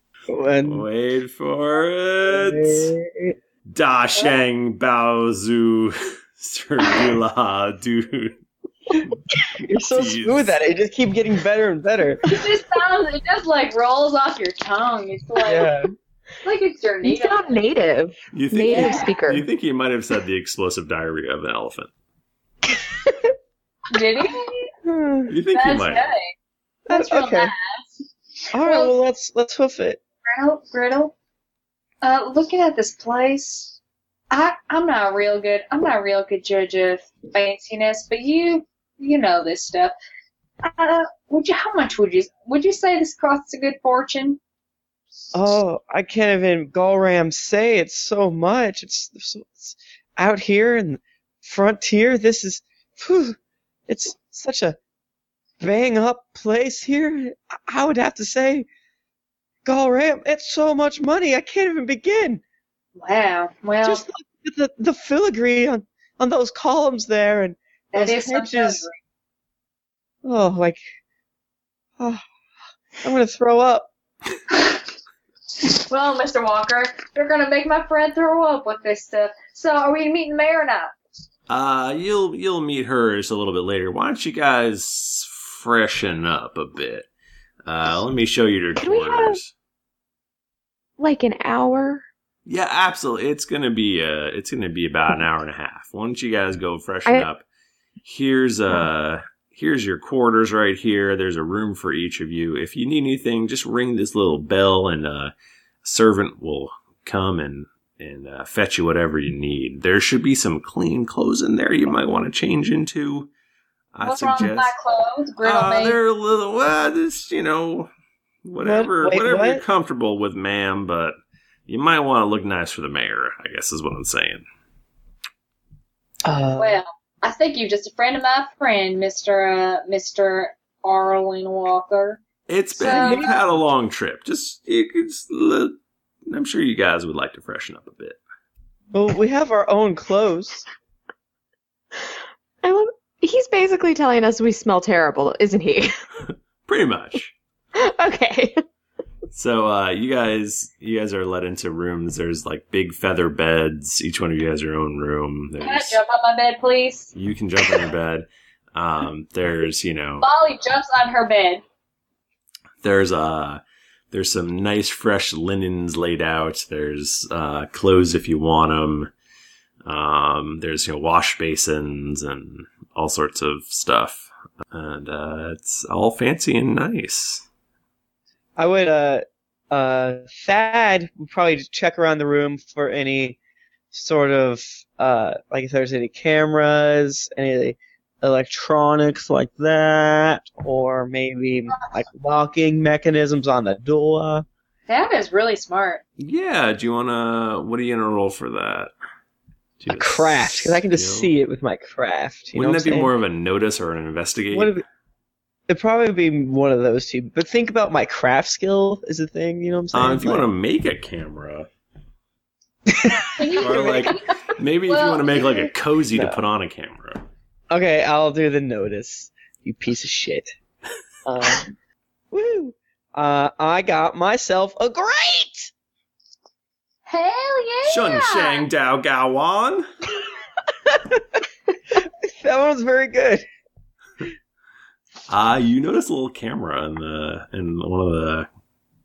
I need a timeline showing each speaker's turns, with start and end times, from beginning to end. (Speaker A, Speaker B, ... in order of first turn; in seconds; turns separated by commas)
Speaker A: 0.3-0.8, Speaker B: 0.6-2.9, Speaker A: 2.3-3.4, Speaker B: 3.7-8.3, Speaker A: 8.9-12.2, Speaker B: 9.9-10.6, Speaker C: 12.2-15.7, Speaker A: 15.4-15.9, Speaker C: 16.4-17.6, Speaker D: 17.0-19.5, Speaker B: 18.3-21.9, Speaker C: 18.7-19.2, Speaker C: 23.9-24.7, Speaker A: 24.8-25.3, Speaker B: 25.3-26.1, Speaker C: 25.5-26.3, Speaker A: 26.9-27.5, Speaker C: 26.9-28.9, Speaker A: 28.5-30.0, Speaker C: 30.3-31.1, Speaker C: 32.0-33.8, Speaker C: 34.3-39.9, Speaker C: 40.6-44.4, Speaker A: 45.3-53.4, Speaker A: 53.9-54.8, Speaker A: 55.6-58.7, Speaker A: 59.6-62.4, Speaker C: 63.0-64.0, Speaker A: 63.8-68.8, Speaker C: 67.9-69.0, Speaker A: 70.2-70.8, Speaker A: 73.0-73.9, Speaker C: 74.5-74.8, Speaker C: 75.6-80.9, Speaker B: 81.5-87.1, Speaker B: 87.6-89.5, Speaker D: 88.8-89.4, Speaker D: 91.0-92.0, Speaker B: 92.5-97.4, Speaker B: 98.0-105.3, Speaker B: 105.8-113.3, Speaker B: 113.9-114.7, Speaker C: 114.0-116.0, Speaker B: 115.4-117.9, Speaker B: 118.4-121.1, Speaker A: 118.6-119.6, Speaker B: 121.7-124.4, Speaker A: 126.2-126.8, Speaker C: 126.6-132.2, Speaker B: 132.5-135.8, Speaker C: 132.7-133.3, Speaker A: 132.8-133.5, Speaker B: 136.3-138.2, Speaker A: 138.9-140.7, Speaker D: 142.6-145.9, Speaker B: 146.7-147.3, Speaker D: 147.7-148.6, Speaker B: 149.3-156.0, Speaker C: 155.6-157.1, Speaker B: 157.1-160.3, Speaker C: 160.2-161.6, Speaker B: 162.8-169.1, Speaker B: 169.8-177.4, Speaker A: 178.6-183.4, Speaker A: 183.9-194.4, Speaker C: 194.9-196.0, Speaker B: 196.2-198.9, Speaker B: 199.8-201.3, Speaker A: 199.9-203.1, Speaker B: 202.5-204.7, Speaker A: 204.5-204.8, Speaker A: 205.7-210.5, Speaker B: 209.9-211.7, Speaker A: 212.9-214.1, Speaker C: 213.4-215.5, Speaker B: 213.6-217.2, Speaker A: 217.7-220.5, Speaker A: 221.2-221.7, Speaker A: 222.3-225.7, Speaker C: 227.1-228.7, Speaker B: 227.8-229.8, Speaker A: 230.9-231.4, Speaker A: 231.9-233.4, Speaker B: 235.3-238.5